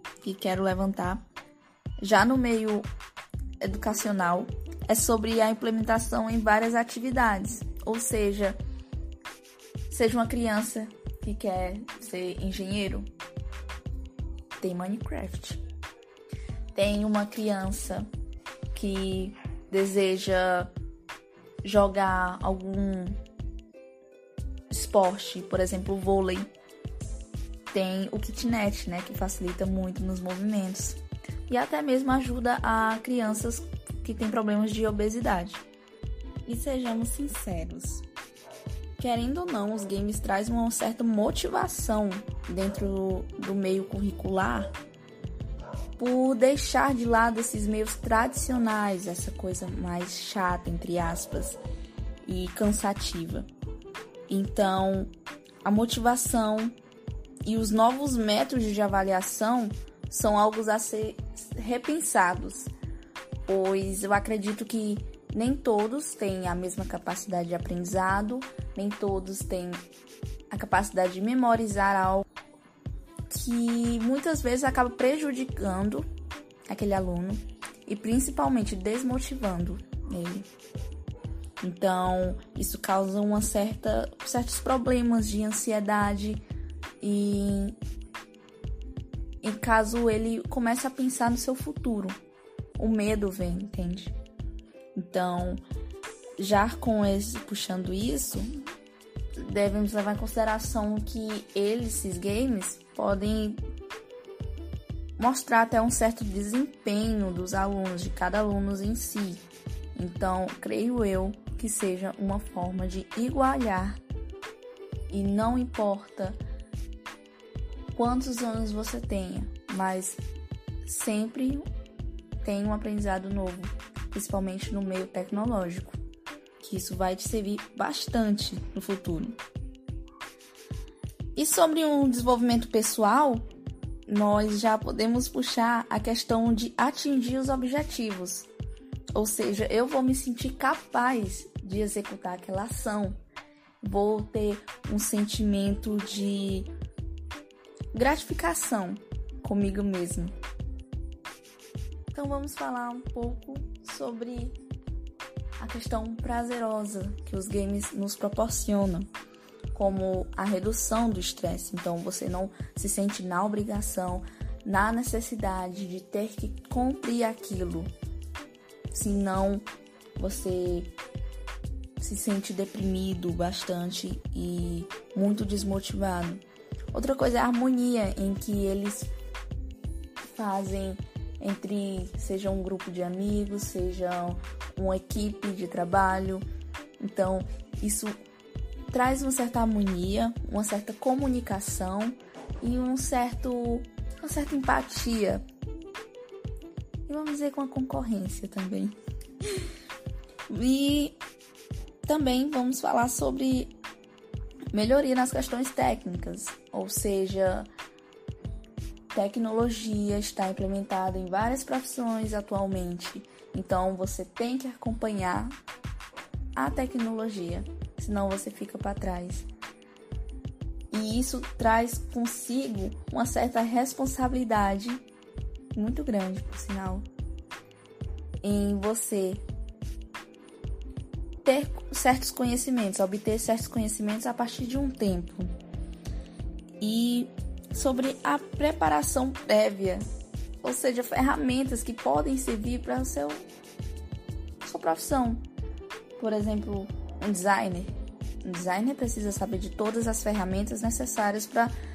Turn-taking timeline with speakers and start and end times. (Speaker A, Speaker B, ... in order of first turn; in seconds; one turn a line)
Speaker A: 0.2-1.2
Speaker A: 2.0-2.9
Speaker A: 3.6-8.6
Speaker A: 9.9-13.1
Speaker A: 14.6-15.6
Speaker A: 16.7-18.1
Speaker A: 18.7-20.7
Speaker A: 21.6-23.2
Speaker A: 24.7-26.5
Speaker A: 27.7-35.6
Speaker A: 36.5-38.0
Speaker A: 39.0-44.7
Speaker A: 46.0-51.6
Speaker A: 52.2-53.5
Speaker A: 54.3-55.1
Speaker A: 55.6-56.7
Speaker A: 57.5-62.7
Speaker A: 63.5-69.8
Speaker A: 70.5-72.2
Speaker A: 73.3-76.0
Speaker A: 76.7-80.5
Speaker A: 81.6-86.4
Speaker A: 87.0-87.8
Speaker A: 89.4-92.2
Speaker A: 92.8-94.2
Speaker A: 95.0-95.6
Speaker A: 96.4-98.5
Speaker A: 99.4-103.6
Speaker A: 105.2-109.4
Speaker A: 110.0-114.0
Speaker A: 115.1-116.4
Speaker A: 118.0-120.2
Speaker A: 120.9-121.7
Speaker A: 122.4-126.0
Speaker A: 126.6-129.4
Speaker A: 131.4-133.4
Speaker A: 134.1-138.5
Speaker A: 139.2-143.2
Speaker A: 143.8-146.7
Speaker A: 147.9-150.3
Speaker A: 152.1-154.6
Speaker A: 155.6-159.1
Speaker A: 159.7-167.9
Speaker A: 168.9-169.7
Speaker A: 170.2-170.9
Speaker A: 172.0-179.1
Speaker A: 180.2-186.5
Speaker A: 187.0-188.2
Speaker A: 188.9-195.4
Speaker A: 197.1-199.0
Speaker A: 200.5-201.2
Speaker A: 202.1-203.7
Speaker A: 204.7-207.7
Speaker A: 209.1-215.6
Speaker A: 216.6-219.5
Speaker A: 220.9-225.0
Speaker A: 225.7-227.1
Speaker A: 228.4-229.4
Speaker A: 231.4-235.5
Speaker A: 236.8-240.0
Speaker A: 240.6-243.4
Speaker A: 244.6-245.4
Speaker A: 246.2-247.9
Speaker A: 248.4-251.7